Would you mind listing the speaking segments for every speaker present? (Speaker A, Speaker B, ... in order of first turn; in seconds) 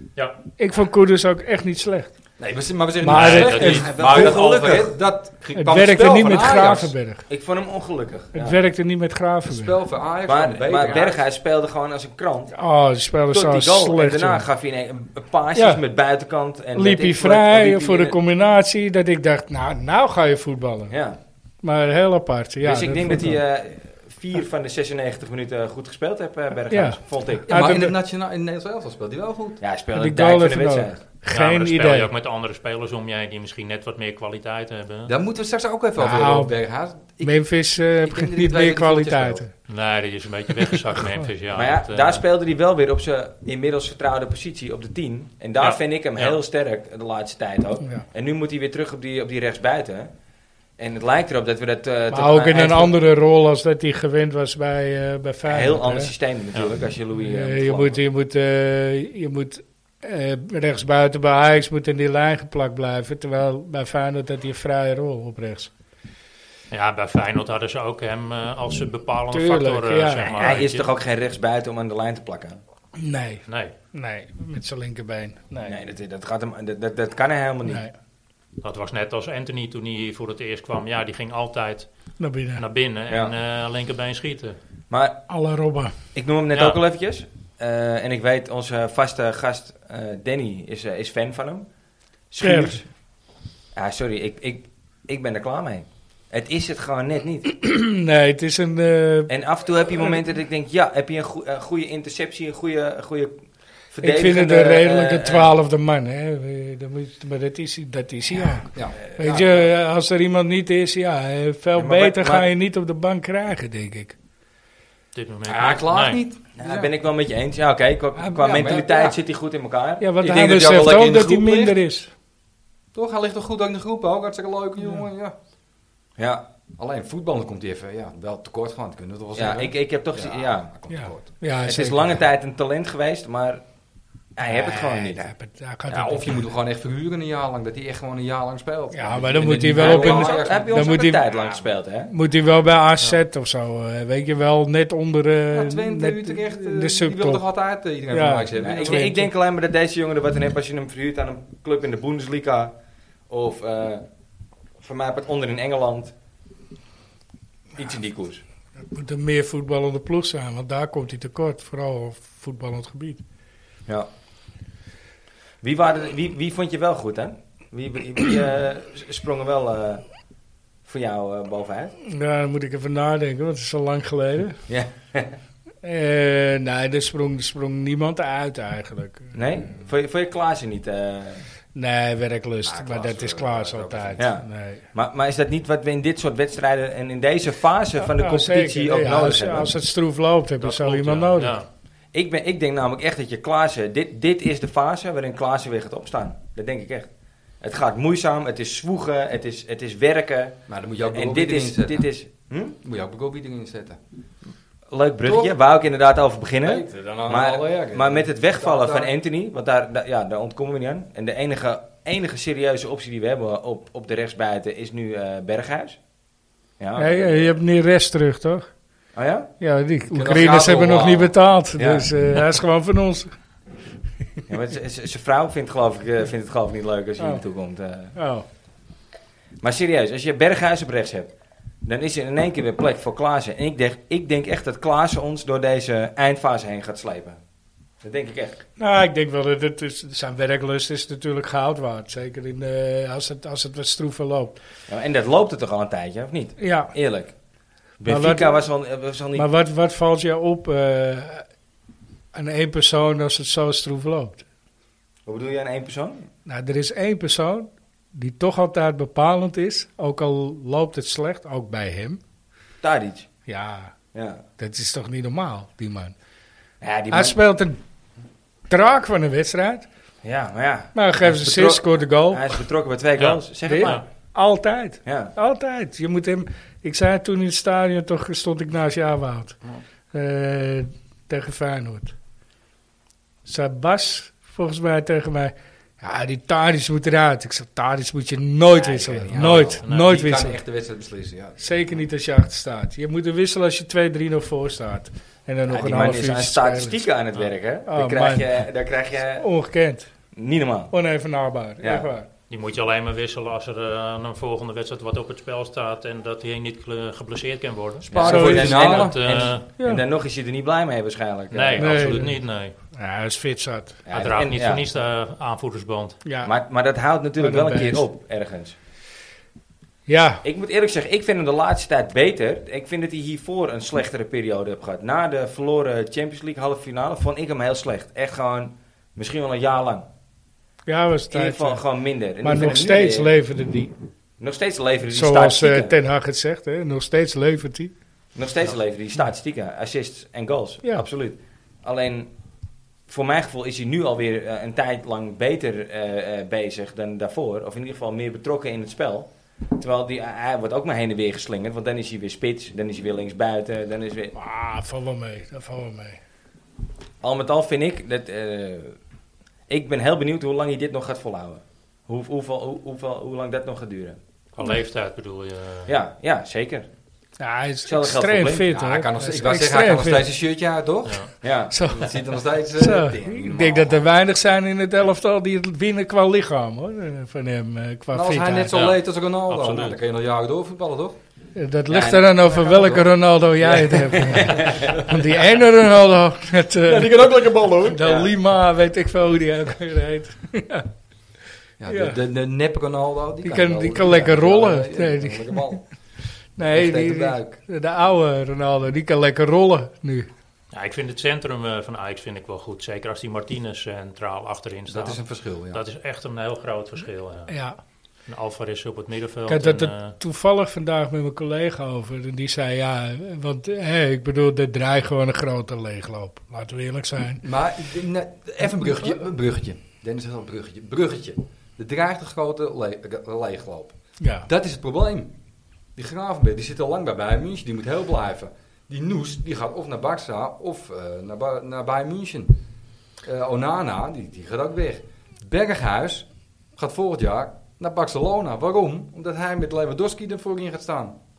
Speaker A: 0.6-2.1, 3.0-4.3, 5.6-7.3, 8.3-9.8, 12.6-14.4, 15.6-15.8, 16.8-20.9, 21.6-23.4, 26.7-27.9, 29.9-32.1, 36.0-36.5, 37.2-39.5, 52.1-56.1, 57.2-65.7, 69.3-70.6, 73.0-75.8, 77.7-77.9, 82.2-82.6, 85.3-85.9, 92.4-92.8, 97.5-99.3, 104.0-114.2, 118.2-118.6, 120.0-122.1, 130.9-132.1, 134.4-136.4, 138.9-141.3, 142.1-147.4, 148.1-149.3, 158.9-163.2, 172.1-174.6, 175.8-179.3, 181.7-184.8, 188.0-191.6, 217.0-218.7, 219.6-223.3, 228.2-228.4, 238.8-244.6, 246.6-246.9, 248.1-248.6, 249.3-251.4, 252.3-254.4, 256.5-262.2, 263.5-263.9, 264.6-266.1, 267.1-267.8, 268.7-269.9, 270.9-272.6, 273.7-279.6, 280.1-282.1, 283.4-290.6, 291.6-297.0, 297.9-298.6, 299.4-300.1, 300.9-302.3, 308.2-309.1, 311.8-312.4, 312.9-314.0, 316.2-316.5, 317.4-318.0, 320.1-320.4, 330.9-331.8, 332.4-333.9, 335.1-337.9, 354.4-356.2, 367.4-370.3, 371.7-372.1, 372.8-378.7, 381.6-387.3, 387.9-390.9, 391.9-392.2, 393.4-395.8, 396.6-400.3, 407.5-407.8, 409.5-417.4, 424.2-424.5
Speaker B: 2.4-7.0, 9.5-11.2, 27.5-29.6, 35.1-39.4, 108.7-109.7, 115.5-116.9, 118.4-119.2, 120.2-121.8, 122.9-125.3, 126.8-131.3, 135.9-140.9, 145.5-149.1, 182.6-184.2, 200.7-202.1, 202.8-204.0, 205.2-205.6, 206.6-209.1, 220.1-221.3, 288.7-291.6, 308.1-309.2, 368.7-371.3, 371.9-374.1, 378.1-381.2, 382.5-385.2, 386.9-388.3, 391.8-395.9, 396.6-397.6, 404.9-405.8, 417.4-425.3, 426.0-432.6, 433.2-441.2
Speaker C: 3.1-3.9, 31.3-35.1, 39.7-42.2, 45.6-46.4, 66.7-70.9, 73.5-73.7, 78.6-81.9, 82.5-84.6, 115.1-116.2, 190.6-191.7, 273.2-274.0, 289.3-290.1, 302.5-308.1, 308.8-309.6, 311.5-312.8, 314.1-316.2, 364.6-365.9, 371.1-371.3, 378.7-380.0, 400.7-407.5, 408.3-410.2
Speaker D: 3.4-5.0, 7.3-8.6, 10.3-12.5, 13.3-18.2, 20.9-21.2, 22.6-27.5, 29.6-31.0, 41.5-50.1, 50.8-52.9, 55.5-58.0, 70.3-72.6, 75.6-77.8, 84.9-85.2, 86.2-91.7, 92.3-92.9, 93.8-97.5, 99.3-103.3, 103.9-105.5, 111.8-112.5, 116.6-120.1, 126.2-126.5, 129.4-130.7, 131.6-133.6, 134.4-135.3, 139.7-142.1, 148.6-152.7, 153.3-154.1, 154.8-156.1, 157.8-158.4, 165.6-170.0, 170.8-171.9, 174.7-175.4, 179.3-181.5, 184.2-189.7, 192.1-197.1, 197.6-202.8, 204.9-216.0, 216.8-217.6, 219.2-219.5, 221.8-222.1, 224.5-228.2, 229.6-231.3, 231.8-237.4, 238.0-238.6, 244.9-247.3, 248.0-249.5, 255.3-256.3, 262.8-263.3, 264.1-264.4, 266.8-267.4, 270.2-274.0, 275.1-275.3, 295.7-299.5, 300.4-300.9, 301.8-302.1, 308.1-312.2, 314.1-314.9, 316.4-318.8, 320.4-330.1, 331.3-333.3, 334.4-335.9, 338.4-342.3, 343.1-354.3, 357.2-359.0, 359.7-364.2, 365.9-366.9, 367.9-368.8, 371.4-371.8, 381.9-382.3, 384.3-385.0